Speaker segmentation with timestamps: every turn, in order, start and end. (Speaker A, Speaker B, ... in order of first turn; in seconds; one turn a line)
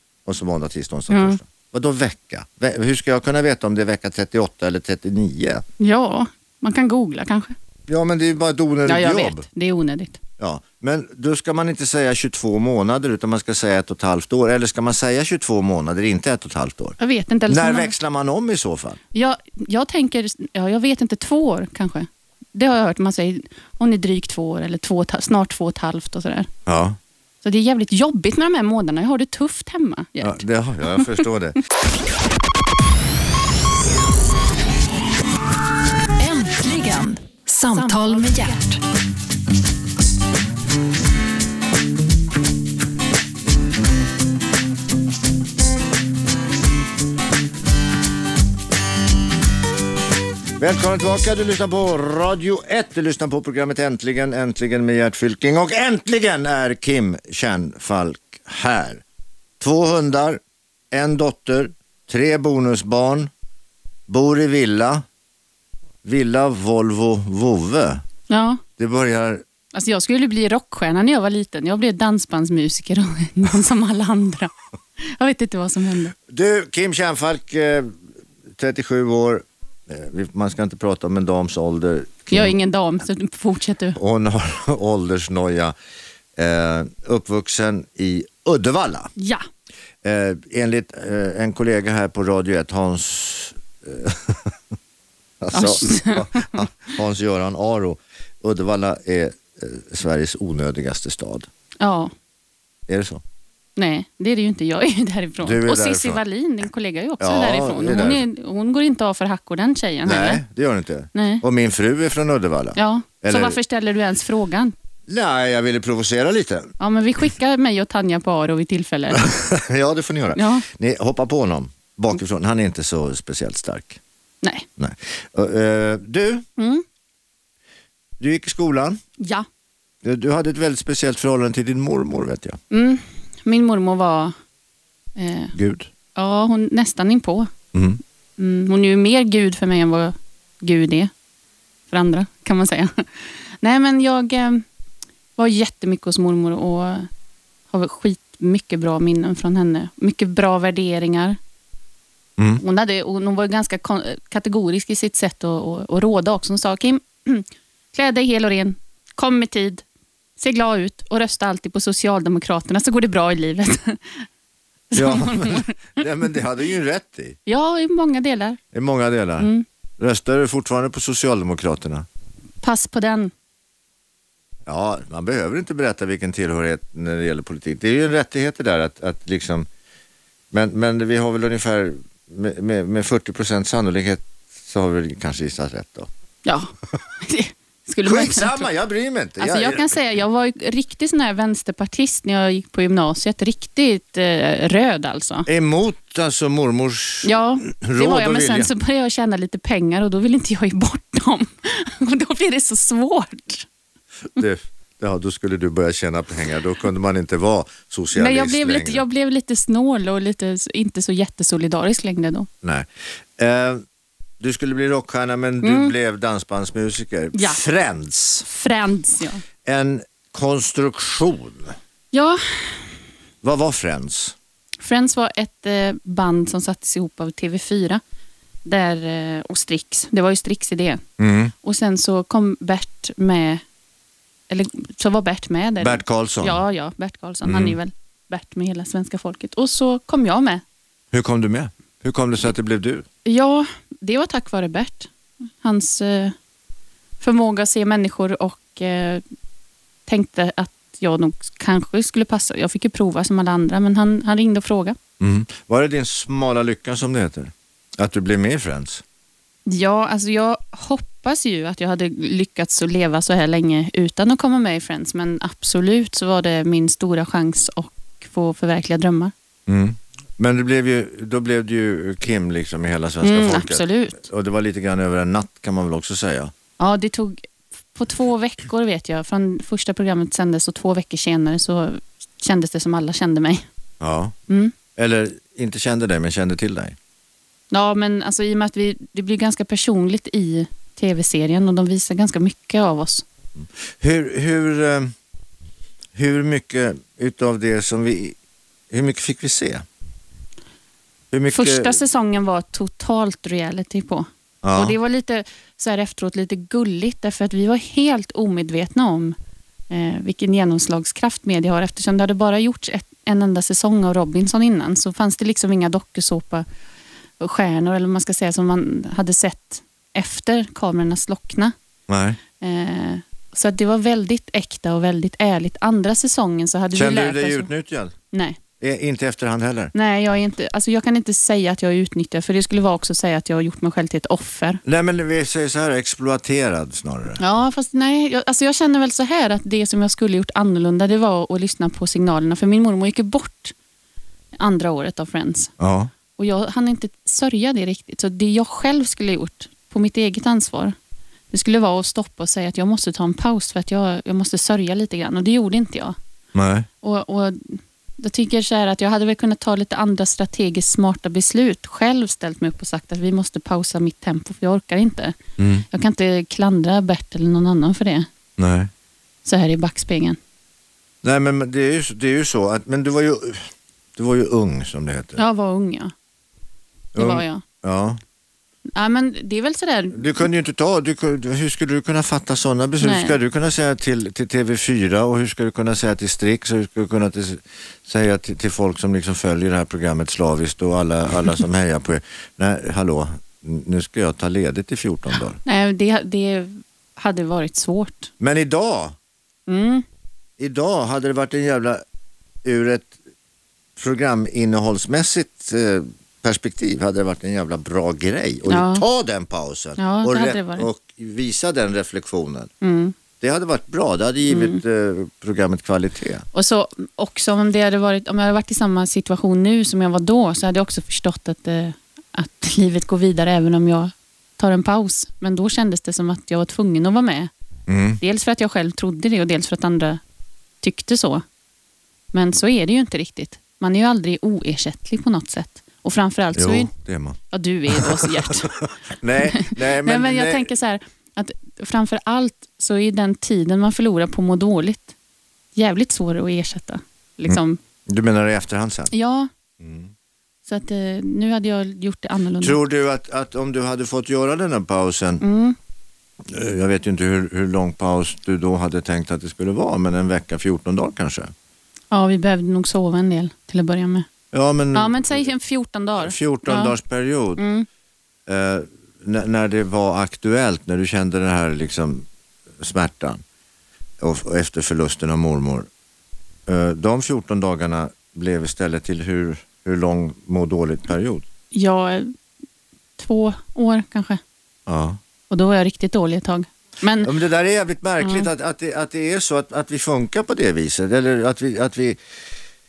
Speaker A: 0.2-5.6
Speaker B: 1.1-1.4
Speaker B: 5.8-7.5
Speaker A: 7.9-9.4
Speaker B: 8.8-10.2
Speaker A: 10.4-16.9
Speaker B: 17.0-17.9
Speaker A: 17.5-19.0
Speaker B: 19.1-26.5
Speaker A: 26.6-27.0
Speaker B: 27.4-31.1
Speaker A: 30.2-31.6
Speaker C: 36.2-38.8
Speaker B: 37.8-38.2
Speaker A: 50.6-59.0
Speaker A: 59.6-63.3
Speaker A: 64.1-65.0
Speaker A: 66.0-68.0
Speaker B: 68.3-68.6
Speaker A: 68.8-69.4
Speaker B: 69.7-76.1
Speaker A: 76.3-78.0
Speaker A: 78.5-82.5
Speaker B: 82.3-84.0
Speaker A: 84.0-85.7
Speaker A: 86.3-89.1
Speaker B: 89.2-89.4
Speaker A: 90.0-94.6
Speaker A: 95.4-101.5
Speaker B: 95.5-96.7
Speaker B: 101.8-102.1
Speaker A: 102.9-103.2
Speaker B: 103.8-110.4
Speaker A: 105.4-106.2
Speaker A: 107.2-108.2
Speaker A: 110.0-113.6
Speaker B: 111.1-111.4
Speaker B: 112.8-114.7
Speaker A: 115.1-116.7
Speaker B: 116.8-119.3
Speaker A: 119.1-124.0
Speaker B: 120.3-120.6
Speaker A: 124.8-126.4
Speaker B: 126.6-126.8
Speaker A: 128.2-129.0
Speaker B: 129.2-129.4
Speaker A: 130.0-132.6
Speaker B: 132.7-134.3
Speaker B: 135.2-135.5
Speaker A: 135.5-135.9
Speaker B: 136.1-137.5
Speaker A: 137.7-138.0
Speaker B: 138.4-141.1
Speaker B: 141.9-144.6
Speaker B: 145.4-147.1
Speaker B: 147.7-151.4
Speaker A: 152.4-152.6
Speaker B: 152.6-159.8
Speaker B: 160.4-164.3
Speaker B: 164.9-165.9
Speaker A: 164.9-167.4
Speaker B: 167.4-168.6
Speaker A: 168.7-172.1
Speaker B: 169.4-169.6
Speaker B: 172.6-173.3
Speaker A: 174.7-179.7
Speaker A: 180.5-186.1
Speaker B: 186.4-188.7
Speaker A: 188.0-190.0
Speaker B: 189.4-195.5
Speaker A: 195.4-198.7
Speaker B: 197.2-203.7
Speaker A: 204.3-209.0
Speaker B: 208.1-212.5
Speaker A: 212.6-213.8
Speaker A: 214.4-218.5
Speaker B: 215.6-215.9
Speaker B: 217.3-217.6
Speaker B: 218.4-219.4
Speaker A: 219.6-221.8
Speaker B: 222.1-222.9
Speaker A: 223.4-224.3
Speaker B: 224.8-228.0
Speaker B: 228.6-231.0
Speaker A: 231.2-231.5
Speaker B: 231.6-233.6
Speaker B: 234.5-240.6
Speaker A: 235.8-236.6
Speaker A: 237.4-237.8
Speaker A: 241.1-243.1
Speaker B: 243.2-245.1
Speaker B: 245.6-246.3
Speaker B: 247.2-249.2
Speaker B: 250.1-255.0
Speaker A: 255.2-259.0
Speaker B: 259.6-269.3
Speaker A: 269.7-276.5
Speaker B: 273.2-274.2
Speaker B: 276.8-283.6
Speaker A: 284.0-284.3
Speaker B: 284.5-284.7
Speaker A: 284.9-287.0
Speaker B: 287.7-293.2
Speaker A: 293.6-295.1
Speaker A: 296.1-298.4
Speaker A: 298.9-299.9
Speaker A: 301.3-302.0
Speaker B: 301.5-309.4
Speaker A: 304.6-304.9
Speaker B: 309.9-316.6
Speaker B: 317.4-321.7
Speaker A: 322.1-322.4
Speaker B: 322.6-327.7
Speaker A: 326.9-328.1
Speaker B: 328.3-328.6
Speaker A: 328.8-329.9
Speaker B: 329.9-334.8
Speaker A: 334.8-337.4
Speaker B: 337.4-343.7
Speaker B: 344.6-345.7
Speaker A: 345.8-346.1
Speaker B: 346.4-350.9
Speaker B: 351.5-356.1
Speaker A: 356.5-356.9
Speaker B: 357.0-365.4
Speaker A: 365.6-365.8
Speaker B: 365.9-368.3
Speaker A: 368.6-368.9
Speaker B: 369.4-370.4
Speaker A: 371.2-375.4
Speaker B: 375.4-376.1
Speaker A: 377.1-378.2
Speaker B: 377.1-377.6
Speaker B: 378.9-380.5
Speaker A: 380.1-395.6
Speaker B: 383.0-383.4
Speaker B: 395.6-398.3
Speaker A: 398.4-399.1
Speaker B: 399.7-400.0
Speaker A: 400.6-402.0
Speaker A: 402.6-403.1
Speaker A: 404.0-412.7
Speaker B: 408.7-409.0
Speaker B: 410.0-410.9
Speaker B: 412.8-413.1
Speaker A: 413.4-416.4
Speaker B: 414.5-414.8
Speaker B: 416.5-427.5
Speaker A: 427.9-428.2
Speaker B: 428.2-430.2
Speaker B: 430.8-431.4
Speaker B: 432.3-436.9
Speaker A: 436.5-440.7
Speaker B: 437.5-438.7
Speaker B: 439.4-445.1
Speaker B: 445.7-447.8
Speaker A: 447.5-449.1
Speaker B: 449.1-449.5
Speaker A: 449.8-450.1
Speaker B: 450.6-452.8
Speaker A: 452.6-455.4
Speaker B: 455.4-455.8
Speaker A: 456.4-461.5
Speaker B: 462.1-464.3
Speaker A: 464.5-465.5
Speaker B: 464.9-466.9
Speaker A: 466.2-467.6
Speaker B: 467.6-467.9
Speaker A: 468.5-472.3
Speaker A: 472.8-473.4
Speaker A: 474.2-475.9
Speaker A: 476.7-481.4
Speaker B: 481.7-482.3
Speaker B: 483.2-484.4
Speaker A: 484.9-485.2
Speaker B: 485.5-487.3
Speaker A: 487.2-492.2
Speaker B: 488.2-488.5